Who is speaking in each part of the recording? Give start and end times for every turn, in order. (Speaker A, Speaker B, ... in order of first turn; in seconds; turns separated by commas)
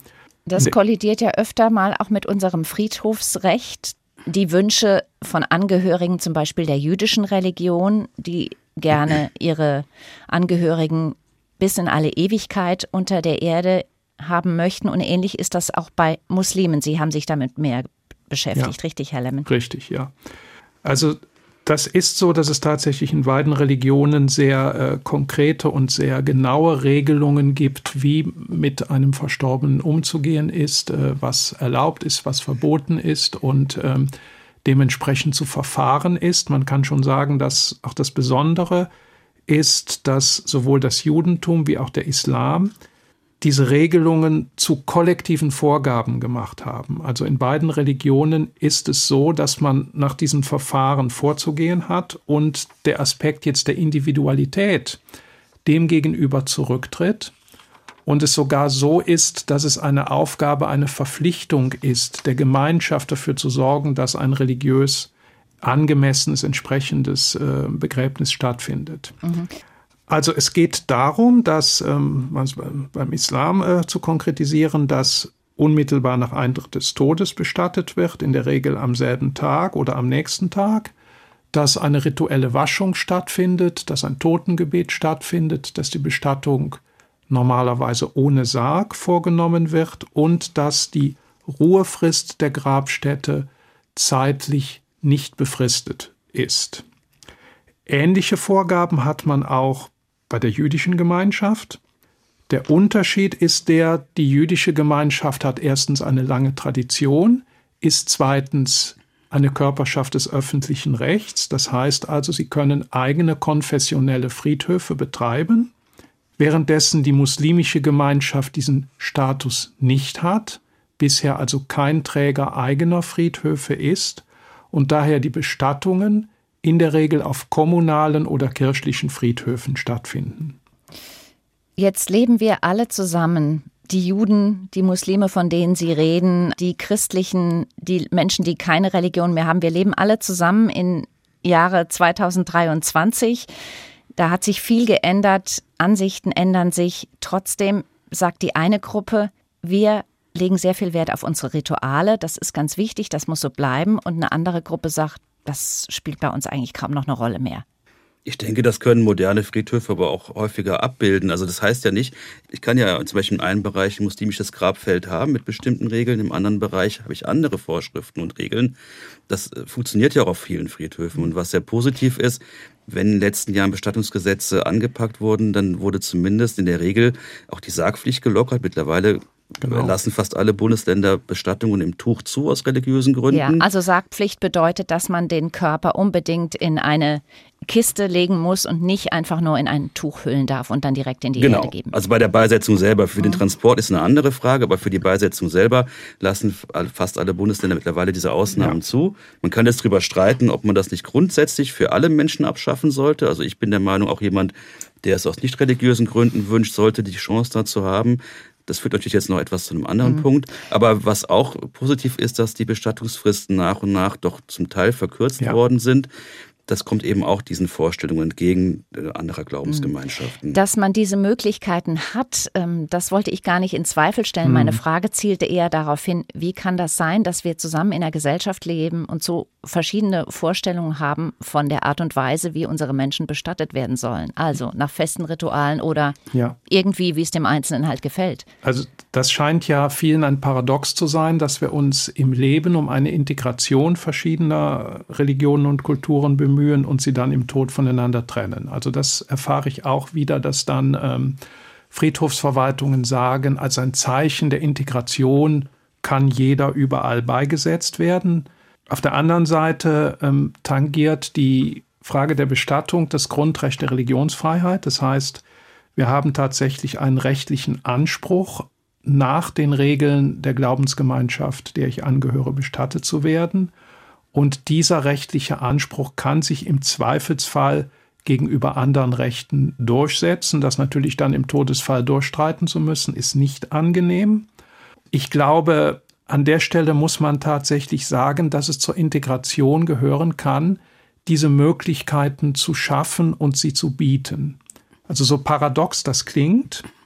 Speaker A: 0.5-19.5, Speaker B: 19.4-20.1, Speaker B: 20.8-34.1, Speaker B: 34.6-38.9, Speaker B: 39.5-42.7, Speaker B: 43.4-55.0, Speaker B: 55.6-57.3, Speaker B: 58.1-65.1, Speaker B: 65.6-69.2, Speaker A: 69.2-69.5, Speaker B: 70.1-80.9, Speaker B: 81.5-96.8, Speaker B: 97.9-101.8, Speaker B: 102.5-115.7, Speaker B: 116.4-130.6, Speaker A: 131.8-143.5, Speaker A: 144.2-157.7, Speaker C: 158.3-168.8, Speaker C: 169.3-183.7, Speaker B: 179.6-179.9, Speaker A: 183.3-192.0, Speaker C: 191.4-216.1, Speaker C: 216.7-220.6, Speaker A: 220.5-236.2, Speaker B: 224.4-224.8, Speaker A: 236.7-238.5, Speaker B: 238.6-251.4, Speaker B: 251.9-265.4, Speaker B: 266.0-273.7, Speaker B: 274.3-284.5, Speaker B: 285.1-296.9